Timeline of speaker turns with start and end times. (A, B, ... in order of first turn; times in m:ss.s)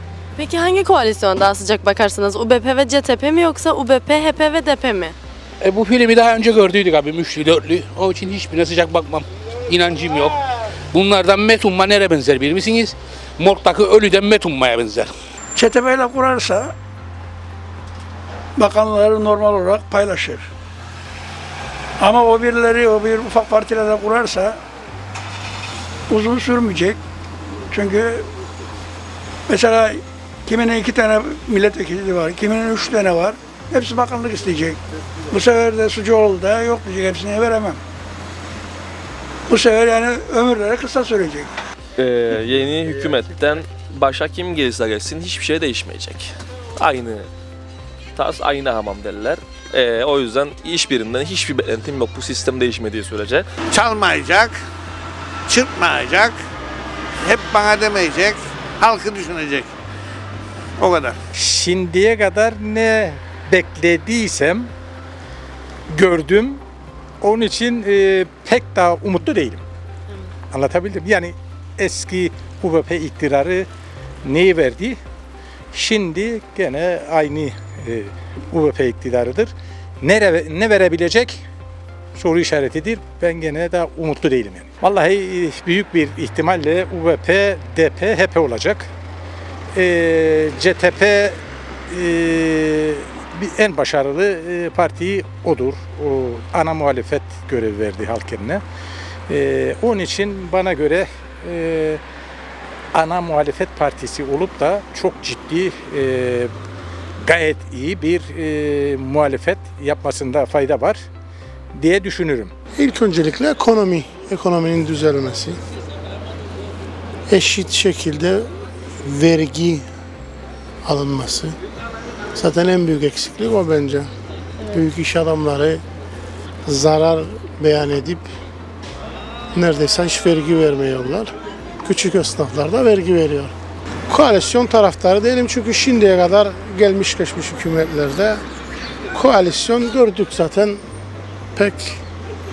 0:00.4-0:05.2 A
0:05.6-0:15.1 B
0:15.6-0:16.7 C
0:18.6-0:20.4 C
0:22.0-0:24.6 C
0:26.1-0:27.0 C
0:27.7-0:28.3 C
0:29.5-0:34.8 C
0:35.3-0:37.8 C
0:39.5-0:41.5 C
0:42.0-0:47.3 D
0:48.2-0:53.5 D
0:53.7-0:54.6 E
0:55.5-0:56.4 E
0:57.2-0:59.7 E
1:00.8-1:01.2 E
1:01.3-1:04.7 F
1:05.9-1:06.6 F
1:07.2-1:09.6 F
1:10.5-1:13.7 F
1:14.2-1:15.0 F
1:15.7-1:21.4 F
1:22.2-1:28.9 F
1:29.8-1:38.6 F
1:39.3-1:42.0 F
1:42.9-1:46.5 F
1:47.2-1:51.0 F
1:51.7-1:52.5 F
1:52.8-1:55.6 G
1:57.3-1:58.5 G
1:59.0-1:59.9 G
2:00.8-2:01.6 G
2:02.3-2:04.1 G
2:04.6-2:05.8 G
2:06.7-2:08.3 G
2:09.5-2:11.3 G
2:11.8-2:13.5 G
2:14.1-2:18.4 G
2:19.1-2:20.8 G
2:21.6-2:22.0 G